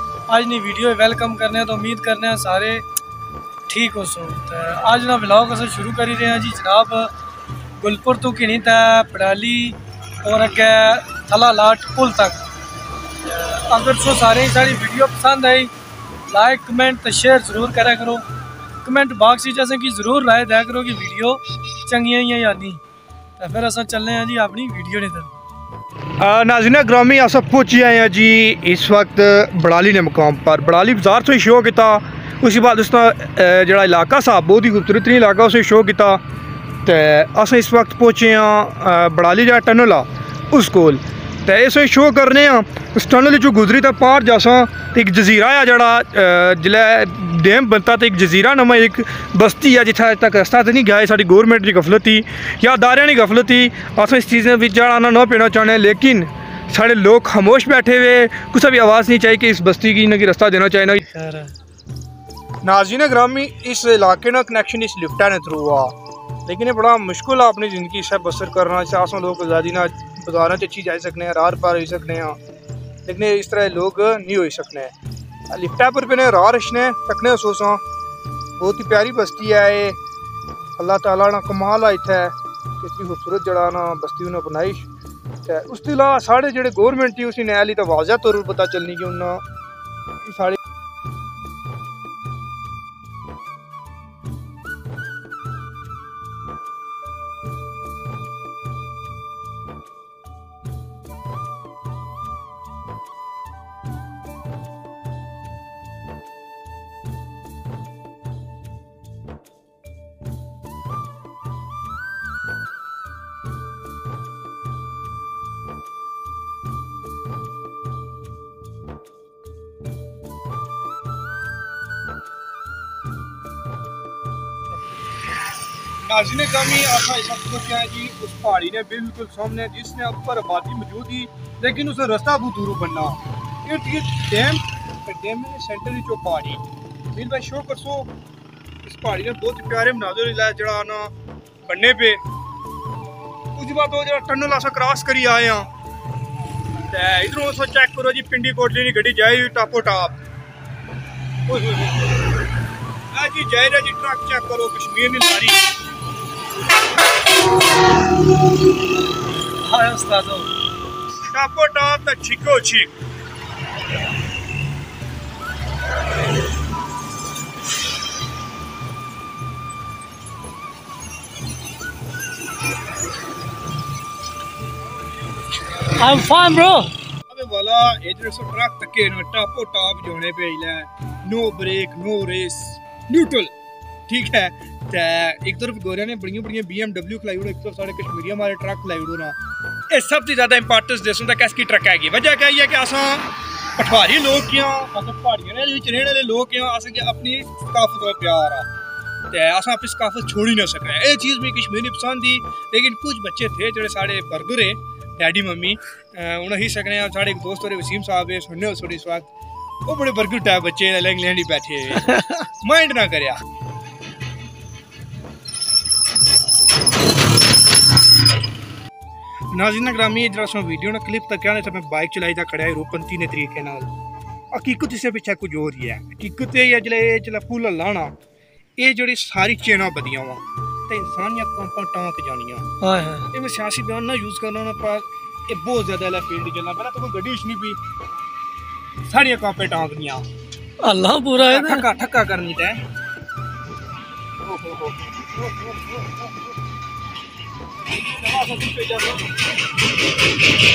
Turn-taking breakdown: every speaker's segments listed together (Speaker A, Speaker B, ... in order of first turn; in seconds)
Speaker A: 0.3-2.8, 3.7-7.1, 7.8-12.4, 13.2-15.7, 16.3-18.2, 18.8-22.8, 23.4-25.3, 61.0-61.5, 159.6-160.5, 175.9-176.9, 212.1-212.4, 232.8-233.3, 240.8-241.9
Speaker B: 26.2-36.2, 36.9-61.0, 62.6-65.9, 66.5-72.4, 73.1-74.9, 75.5-77.8, 78.6-80.0, 80.8-84.9, 85.5-89.4, 90.3-90.6, 126.0-138.1, 138.8-141.1, 141.7-142.2, 143.6-145.7, 146.9-150.2, 151.5-152.1, 153.1-155.6, 161.3-162.9, 177.3-183.5, 184.1-189.4, 189.9-198.7, 199.3-209.3, 209.9-213.4, 219.5-223.9, 224.5-228.1, 228.8-232.7, 233.3-237.8, 239.1-240.2, 241.4-242.8, 244.4-245.7, 247.9-249.3